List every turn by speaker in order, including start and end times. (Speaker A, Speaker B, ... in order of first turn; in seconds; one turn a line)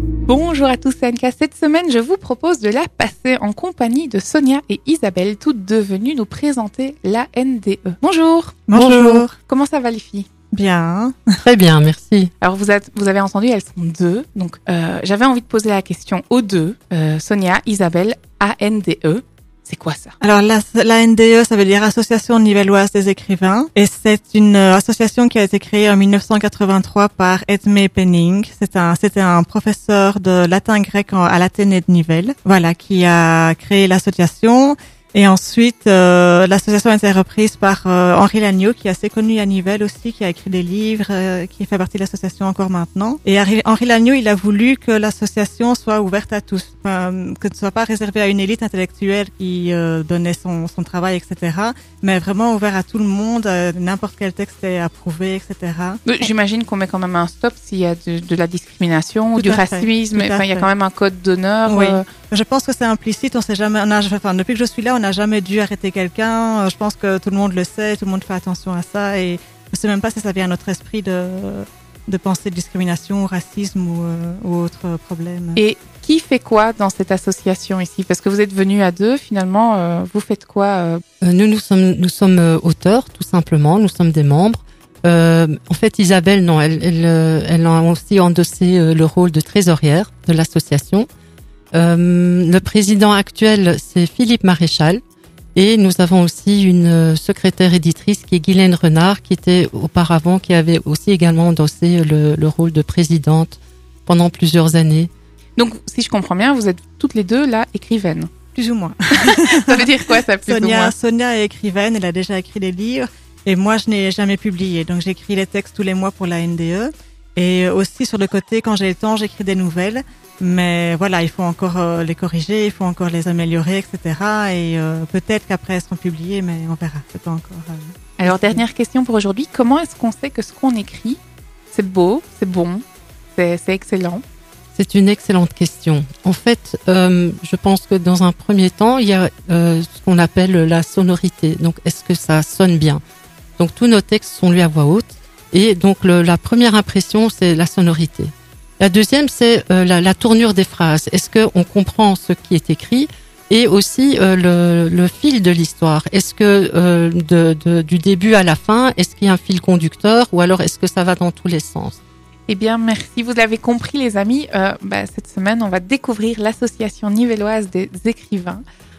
Speaker A: 0.3-8.7
Speaker B: 8.7-9.3
Speaker C: 8.8-9.2
Speaker A: 9.4-10.3
Speaker B: 10.5-11.2
Speaker C: 11.4-12.3
Speaker A: 12.4-20.1
Speaker B: 20.2-56.0
Speaker A: 56.0-62.0
Speaker B: 59.4-60.7
Speaker B: 61.7-75.6
Speaker A: 75.6-81.0
Speaker C: 81.2-91.1
Speaker C: 91.7-95.0
Speaker C: 95.5-105.1
Speaker A: 105.6-108.3
Speaker B: 108.5-109.9
Speaker A: 109.2-111.0
Speaker B: 110.5-128.6
Speaker A: 128.2-131.2
Speaker A: 131.7-134.2
Speaker C: 134.8-143.0
Speaker C: 143.6-162.0
Speaker A: 162.5-168.6